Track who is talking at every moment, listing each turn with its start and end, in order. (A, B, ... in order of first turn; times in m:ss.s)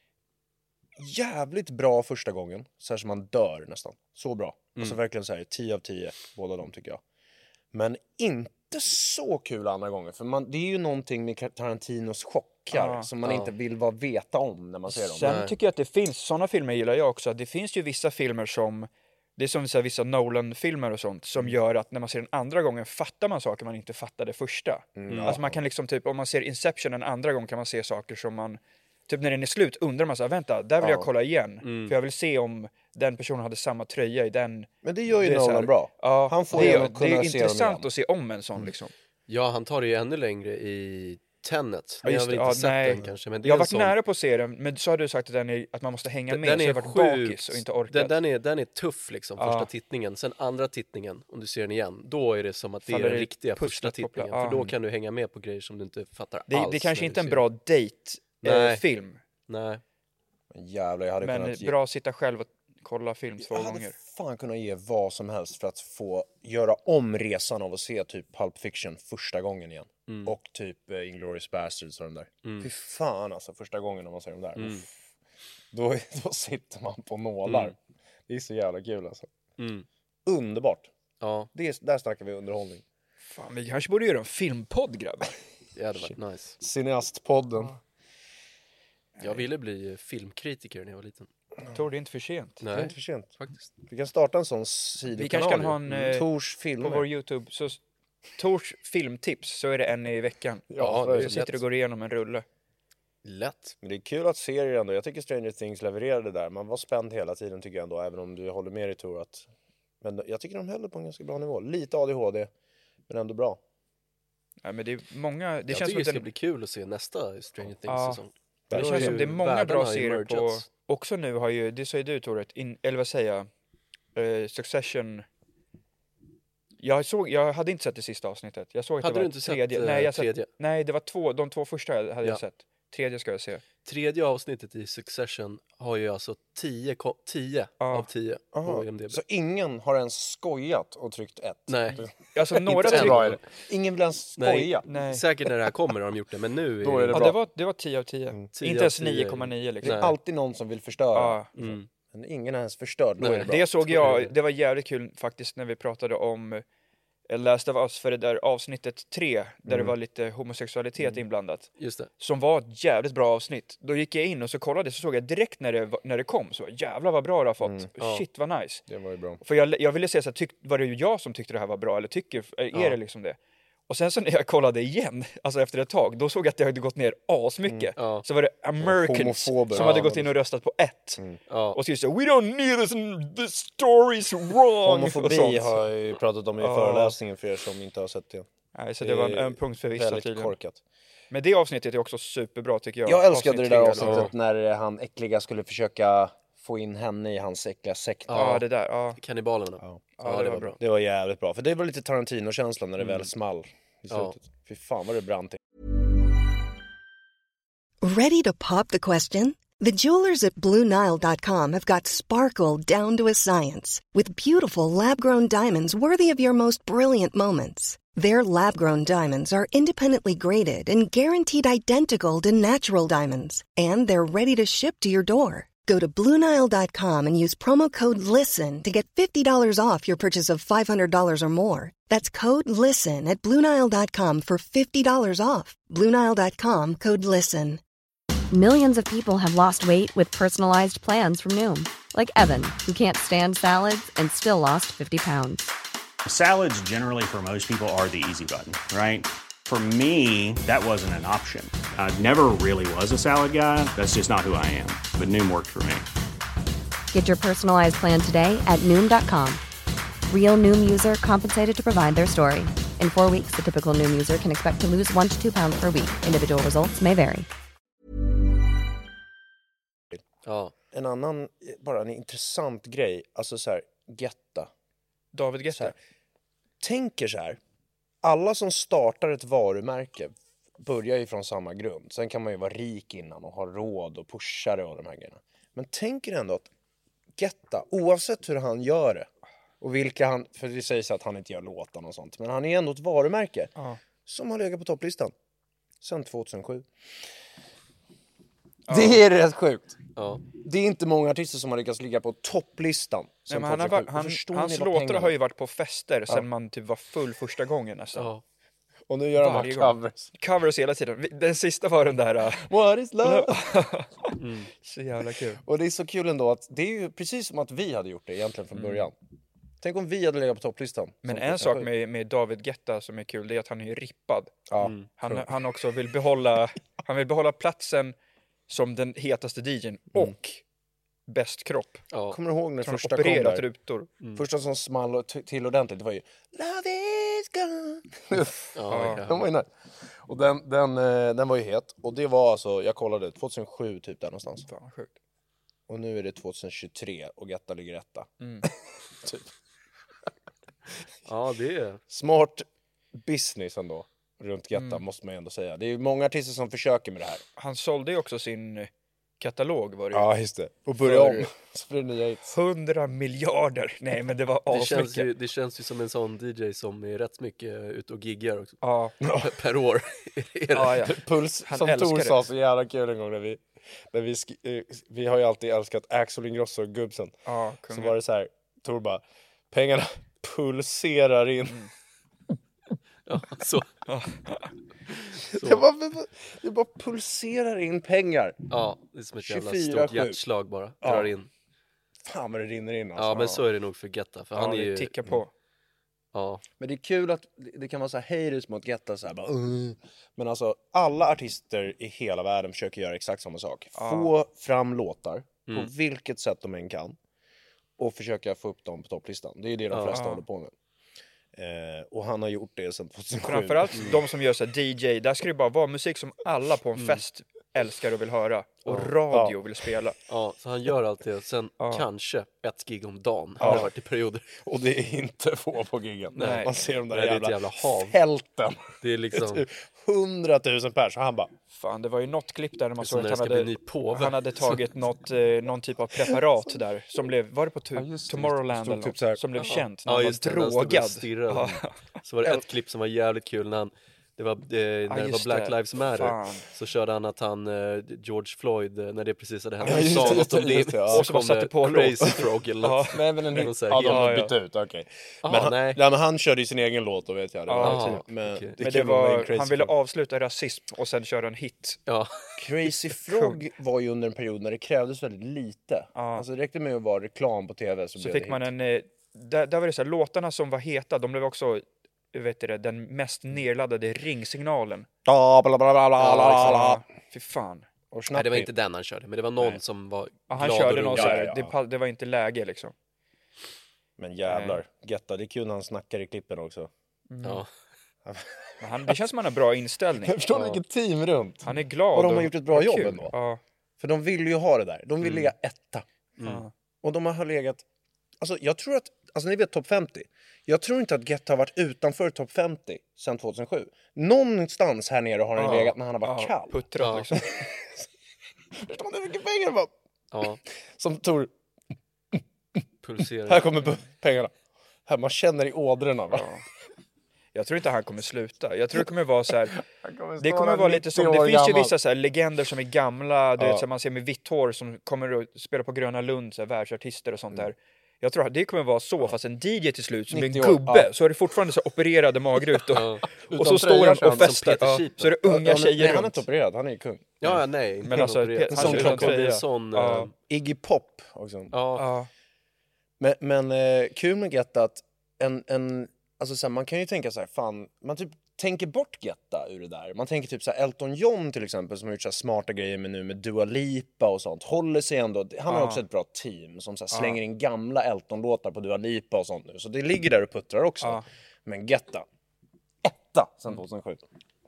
0:01.0-0:07.0 A
0:07.7-0:15.4 A
0:12.7-0:13.1 B
0:13.2-0:13.5 C
0:14.9-0:34.7 B
0:15.2-0:15.5 C
0:25.0-0:25.6 A
0:25.1-0:25.4 C
0:30.8-0:31.1 A
0:31.6-0:31.9 C
0:34.8-0:37.9 A
0:35.2-0:38.9 B
0:36.5-0:36.8 C
0:39.3-0:43.9 C
0:42.0-0:48.1 B
0:46.3-0:57.4 C
0:49.4-0:49.7 B
0:52.8-0:54.7 B
0:56.5-0:59.2 B
0:58.4-0:58.8 C
0:59.5-0:59.8 C
1:00.5-1:01.7 A
1:01.2-1:03.9 B
1:03.4-1:14.9 A
1:10.1-1:10.3 C
1:12.4-1:12.7 C
1:14.6-1:14.8 C
1:15.7-1:17.8 A
1:17.4-1:17.7 C
1:18.3-1:19.3 A
1:19.6-1:19.8 C
1:20.2-1:20.9 A
1:21.2-1:21.5 C
1:21.5-1:22.8 A
1:23.2-1:25.3 B
1:25.8-1:26.6 C
1:26.6-1:27.7 A
1:29.2-1:31.3 C
1:31.7-1:32.6 B
1:32.6-1:33.5 C
1:32.7-1:37.1 A
1:35.1-1:36.2 B
1:36.8-1:37.8 B
1:38.4-1:42.4 B
1:40.7-1:41.5 A
1:40.8-1:41.6 C
1:43.2-1:43.8 C
1:43.8-1:49.5 A
1:50.0-1:52.5 A
1:53.1-1:53.6 A
1:54.6-1:56.3 B
1:55.7-2:00.6 C
1:57.9-1:58.2 B
1:58.7-1:59.3 A
1:58.7-2:03.5 B
2:04.1-2:05.2 B
2:06.8-2:13.6 B
2:09.0-2:10.5 C
2:13.8-2:19.2 C
2:17.8-2:18.1 B
2:18.5-2:24.8 A
2:21.7-2:22.0 C
2:22.3-2:23.3 B
2:22.7-2:23.4 C
2:24.4-2:27.3 C
2:24.9-2:25.2 B
2:26.8-2:27.4 A
2:27.1-2:30.1 B
2:28.6-2:30.1 C
2:29.8-2:34.1 A
2:31.1-2:31.5 B
2:31.5-2:31.9 C
2:33.2-2:34.3 C
2:33.4-2:36.6 B
2:37.3-2:48.8 B
2:39.7-2:39.9 A
2:41.8-2:42.1 C
2:47.6-2:47.9 A
2:48.0-2:48.2 C
2:48.9-2:49.4 A
2:49.4-3:01.2 B
2:58.0-2:58.2 C
2:58.8-3:00.3 A
2:59.7-3:00.1 C
3:01.5-3:01.8 C
3:01.7-3:05.8 B
3:04.8-3:08.5 A
3:06.6-3:07.2 B
3:08.7-3:10.6 B
3:09.0-3:10.8 A
3:11.3-3:14.3 B
3:13.0-3:18.5 A
3:14.0-3:14.3 C
3:18.3-3:18.6 C
3:18.3-3:19.2 B
3:19.2-3:20.8 C
3:20.2-3:20.8 B
3:20.8-3:25.6 A
3:23.0-3:23.3 C
3:24.1-3:24.3 C
3:28.0-3:57.8 D
3:58.5-4:05.7 E
4:06.2-4:16.1 F
4:17.1-4:19.6 E
4:20.3-4:27.5 E
4:30.4-4:30.7 C
4:30.9-4:34.7 A
4:35.3-4:36.0 B
4:36.8-4:37.6 A
4:38.2-4:46.7 A
4:47.4-4:49.3 A
4:49.8-4:53.7 A
4:54.2-4:55.3 A
4:56.0-4:56.9 A
4:58.9-4:59.2 B
4:58.9-5:00.0 A
5:00.2-5:00.4 C
5:00.5-5:05.3 A
5:03.5-5:08.3 B
5:08.2-5:08.4 C
5:09.1-5:10.3 A
5:09.4-5:12.7 B
5:12.6-5:13.6 A
5:13.2-5:15.6 B
5:14.4-5:14.7 C
5:15.6-5:19.1 A
5:19.8-5:21.9 A
5:21.2-5:24.6 B
5:24.7-5:25.5 A
5:24.8-5:25.0 C
5:25.2-5:28.2 B
5:28.7-5:30.6 B
5:31.3-5:32.0 B
5:32.1-5:32.4 C
5:32.3-5:33.7 A
5:32.8-5:34.1 B
5:34.3-5:39.7 A
5:38.7-5:39.4 C
5:38.9-5:39.2 B
5:40.2-5:44.7 A
5:44.7-5:45.1 B
5:45.9-5:49.5 A
5:48.4-5:48.7 B
5:51.2-5:52.0 C
5:52.1-5:57.4 A
5:54.7-5:55.0 B
5:57.6-5:58.9 B
5:59.4-6:00.3 B
6:00.1-6:02.5 A
6:01.0-6:01.4 B
6:02.5-6:05.3 B
6:04.7-6:11.1 C
6:08.8-6:09.1 B
6:09.2-6:09.5 A
6:10.7-6:12.4 B
6:11.0-6:17.3 A
6:17.4-6:18.2 B
6:17.9-6:21.8 A
6:23.3-6:23.9 C
6:24.1-6:24.7 B
6:25.3-6:25.8 C
6:25.5-6:28.6 A
6:28.7-6:31.5 C
6:29.4-6:30.4 A
6:31.0-6:31.3 A
6:32.2-6:33.6 A
6:33.2-6:35.1 C
6:34.6-6:35.5 B
6:36.3-6:36.6 C
6:36.8-6:47.2 A
6:43.9-6:44.3 B
6:48.0-6:50.7 A
6:49.9-6:50.2 C
6:50.1-6:50.4 B
6:51.5-6:54.2 A
6:53.4-7:00.2 B
6:57.0-6:57.2 C
6:58.9-6:59.1 C
7:00.3-7:04.5 C
7:01.8-7:02.0 B
7:03.6-7:03.9 A
7:03.6-7:03.8 B
7:04.6-7:11.5 A
7:06.4-7:08.2 C
7:06.4-7:06.7 B
7:09.0-7:09.6 C
7:11.7-7:21.9 B
7:13.0-7:14.8 C
7:17.9-7:19.4 A
7:19.6-7:34.3 C
7:25.1-7:26.6 B
7:29.8-7:30.5 B
7:29.8-7:31.3 A
7:31.1-7:33.2 B
7:33.1-7:39.9 A
7:34.0-7:34.5 B
7:35.4-7:36.0 C
7:37.7-7:38.2 B
7:37.8-7:38.7 C
7:38.8-7:42.0 B
7:42.1-7:42.6 C
7:42.6-7:48.7 A
7:43.3-7:43.6 B
7:46.1-7:46.4 B
7:48.2-7:55.1 B
7:55.2-7:57.0 A
7:56.2-7:57.9 B
7:58.1-7:58.7 A
7:58.3-8:01.4 C
8:00.5-8:02.9 B
8:01.1-8:01.7 A
8:04.2-8:06.9 A
8:04.5-8:04.8 B
8:07.3-8:07.6 B
8:07.4-8:07.7 C
8:08.2-8:09.1 A
8:08.8-8:10.4 B
8:10.2-8:13.3 A
8:11.6-8:13.6 B
8:14.0-8:16.0 A
8:15.2-8:15.5 C
8:16.4-8:16.6 C
8:16.4-8:16.7 B
8:17.0-8:17.8 A
8:18.4-8:28.1 A
8:25.6-8:27.4 B
8:27.0-8:27.3 C
8:28.7-8:29.9 A
8:30.3-8:30.6 C
8:30.9-8:31.5 A
8:33.0-8:33.7 C
8:33.4-8:34.5 A
8:35.0-8:36.5 A
8:36.3-8:36.6 B
8:37.5-8:39.8 B
8:39.7-8:41.9 A
8:40.4-8:56.4 B
8:43.6-8:43.8 A
8:50.3-8:51.1 A
8:52.9-8:55.3 C
8:53.4-8:54.8 A
8:55.4-8:57.6 A
8:57.4-9:00.3 C
8:58.0-9:00.3 B
8:58.2-8:59.4 A
9:00.5-9:01.7 A
9:01.7-9:02.0 C
9:02.0-9:02.3 B
9:03.2-9:22.2 A
9:15.7-9:16.0 B
9:17.1-9:17.4 B
9:21.0-9:21.2 B
9:23.0-9:24.3 A